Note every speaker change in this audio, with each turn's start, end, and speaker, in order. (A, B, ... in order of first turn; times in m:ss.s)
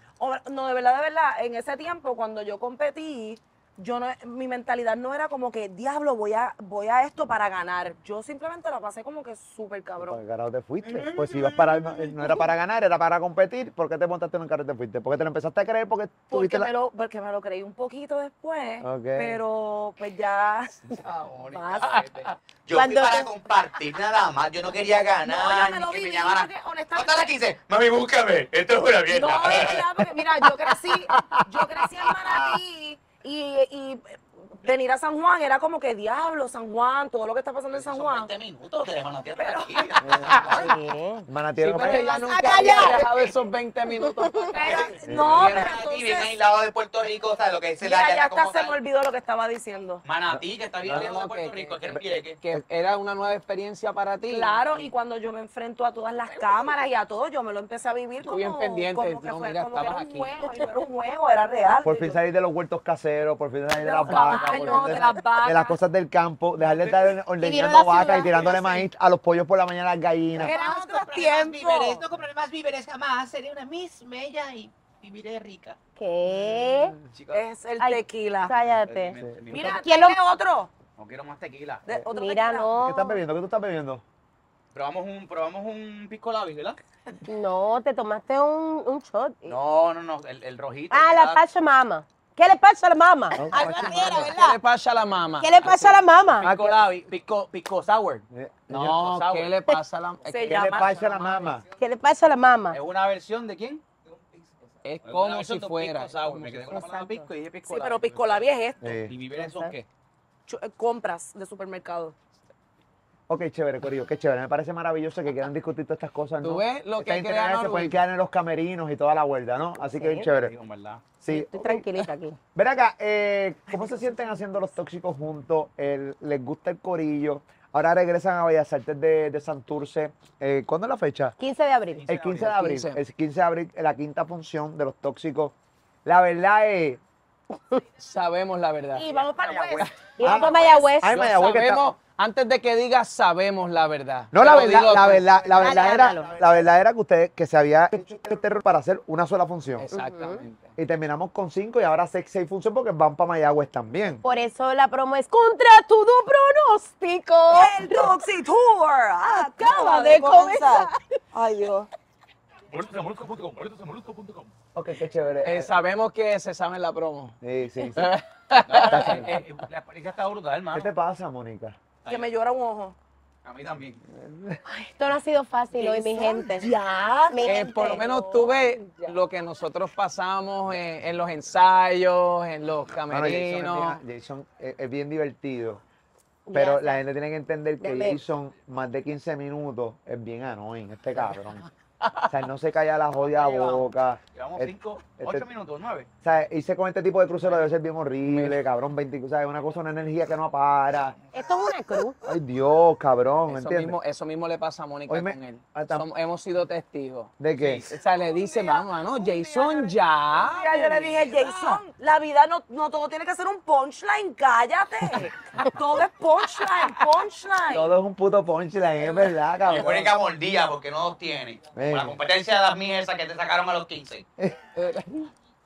0:00.2-0:10.2 A
0:10.0-0:16.7 B
0:10.8-0:12.0 C
0:16.3-0:20.8 A
0:18.8-0:19.4 B
0:20.9-0:29.9 C
0:21.6-0:21.9 A
0:22.7-0:23.3 D
0:25.2-0:27.3 A
0:29.1-0:38.3 A
0:31.1-0:31.6 B
0:37.7-0:40.5 C
0:39.4-0:40.0 A
0:40.0-0:40.5 B
0:40.1-0:40.7 E
0:40.5-0:41.3 D
0:41.3-0:42.2 B
0:41.6-0:44.9 E
0:42.0-0:43.0 D
0:42.0-0:43.0 A
0:44.5-0:46.3 A
0:44.6-0:48.8 C
0:45.0-0:45.4 B
0:47.8-0:50.0 A
0:50.0-0:52.4 C
0:50.4-0:51.0 B
0:50.8-0:51.8 E
0:52.4-0:54.9 E
0:54.3-1:02.2 A
0:58.2-1:00.3 E
1:01.8-1:10.5 B
1:03.8-1:05.8 A
1:04.1-1:05.1 E
1:07.4-1:08.7 D
1:10.4-1:15.7 F
1:10.4-1:12.0 A
1:10.7-1:11.1 C
1:12.3-1:12.6 C
1:15.2-1:15.7 C
1:16.0-1:17.0 D
1:17.1-1:17.4 C
1:17.3-1:18.5 A
1:17.8-1:19.2 D
1:18.7-1:19.8 C
1:19.2-1:19.7 B
1:19.5-1:20.7 A
1:19.8-1:20.2 D
1:21.0-1:21.9 C
1:21.8-1:22.8 A
1:22.1-1:23.2 D
1:22.8-1:24.0 B
1:24.7-1:26.8 C
1:27.2-1:29.6 D
1:29.4-1:31.4 C
1:30.9-1:34.6 D
1:33.4-1:34.3 B
1:34.1-1:36.1 E
1:35.4-1:36.5 D
1:36.4-1:38.2 C
1:38.3-1:39.6 B
1:38.7-1:40.7 E
1:40.3-1:41.3 A
1:40.5-1:41.6 B
1:41.8-1:42.8 D
1:42.7-1:44.4 C
1:44.8-1:46.6 E
1:45.0-1:48.4 C
1:46.7-1:47.3 D
1:47.6-1:49.0 A
1:48.8-1:49.1 B
1:49.1-1:49.9 C
1:49.4-1:49.7 D
1:50.5-1:52.2 A
1:53.3-2:00.6 B
1:56.4-1:58.0 E
1:59.9-2:00.2 D
2:00.2-2:01.0 C
2:01.2-2:01.9 B
2:01.3-2:02.4 D
2:02.6-2:11.4 B
2:11.4-2:12.0 D
2:12.0-2:12.5 C
2:12.1-2:17.0 B
2:12.3-2:13.0 E
2:18.0-2:19.1 E
2:18.9-2:20.9 A
2:19.4-2:19.9 C
2:20.2-2:21.2 D
2:20.2-2:21.9 B
2:21.1-2:25.4 E
2:24.3-2:29.9 B
2:25.6-2:26.3 D
2:29.8-2:30.7 E
2:29.9-2:30.4 D
2:30.8-2:34.2 B
2:34.2-2:38.1 D
2:37.5-2:41.9 A
2:39.2-2:41.1 D
2:42.7-2:44.5 C
2:44.7-2:45.7 B
2:45.4-2:47.4 E
2:47.4-2:48.2 B
2:48.0-2:49.5 E
2:48.7-2:50.9 C
2:48.8-2:49.4 B
2:50.7-2:51.8 B
2:52.1-2:53.0 A
2:53.4-2:54.0 C
2:54.1-2:54.6 B
2:54.7-2:56.8 D
2:55.8-2:59.2 A
2:57.3-2:58.1 D
2:57.4-3:04.0 E
3:03.1-3:05.8 B
3:06.5-3:07.0 D
3:06.5-3:11.6 B
3:07.8-3:08.2 D
3:12.0-3:12.3 E
3:12.3-3:15.5 B
3:13.3-3:16.1 C
3:16.2-3:21.2 B
3:18.2-3:18.6 E
3:21.3-3:22.2 D
3:22.2-3:24.0 B
3:23.5-3:31.7 E
3:25.1-3:26.1 B
3:27.4-3:27.8 B
3:27.6-3:27.9 C
3:28.1-3:37.9 A
3:37.7-3:40.2 B
3:39.6-3:44.2 C
3:41.8-3:42.2 B
3:44.8-3:45.3 E